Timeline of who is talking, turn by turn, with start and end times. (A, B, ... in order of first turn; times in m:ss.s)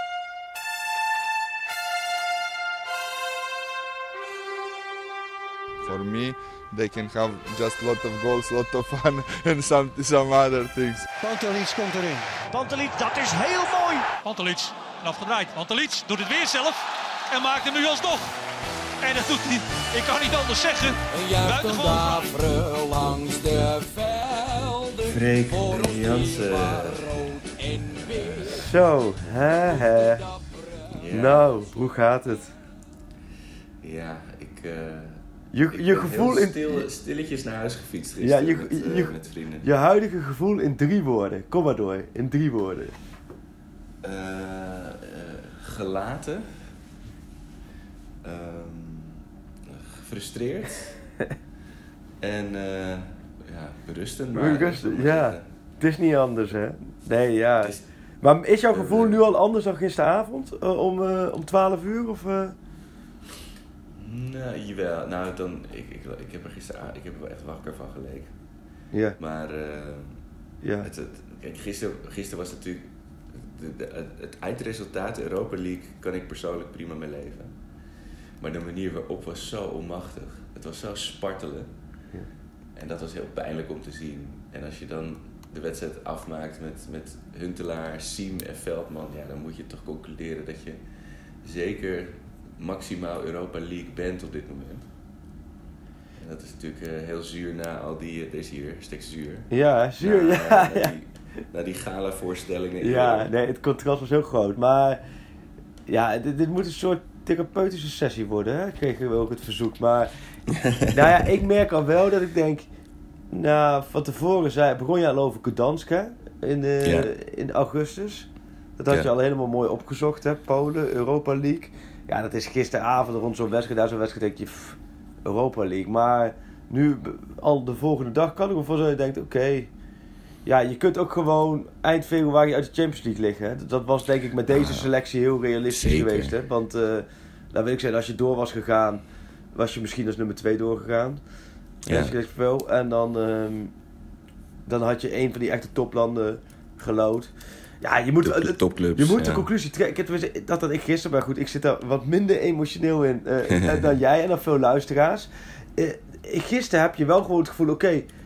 0:05.8-0:11.0 A
0:11.2-0:14.1 B
0:14.2-0:18.3 C
0:19.0-0:22.3 C
0:21.1-0:28.7 D
0:25.1-0:27.0 E
0:28.6-0:30.2 F
0:29.4-0:31.0 D
0:30.9-0:31.4 E
0:31.1-0:32.5 F
0:33.8-0:35.2 E
0:35.5-0:36.9 F
0:35.7-0:39.6 E
0:38.2-0:42.9 F
0:44.0-0:46.5 E
0:48.2-0:51.0 E
0:52.2-0:55.4 E
0:54.3-1:02.5 F
0:58.7-0:59.2 E
1:04.0-1:08.3 E
1:08.9-1:09.2 F
1:09.2-1:10.2 E
1:10.6-1:10.9 F
1:10.8-1:17.5 E
1:18.4-1:21.7 E
1:22.8-1:30.8 E
1:31.4-1:34.8 E
1:36.2-1:39.5 E
1:39.5-1:40.9 F
1:40.0-1:43.3 E
1:42.8-1:45.0 F
1:45.9-1:50.1 F
1:50.5-1:51.0 E
1:50.9-1:52.7 F
1:53.3-2:09.7 F
1:56.8-1:57.1 E
2:10.4-2:19.0 F
2:14.5-2:14.9 E
2:15.7-2:16.3 E
2:19.5-2:21.2 F
2:21.9-2:22.1 E
2:21.9-2:23.7 F
2:24.6-2:38.1 F
2:28.2-2:29.4 E
2:33.5-2:33.8 E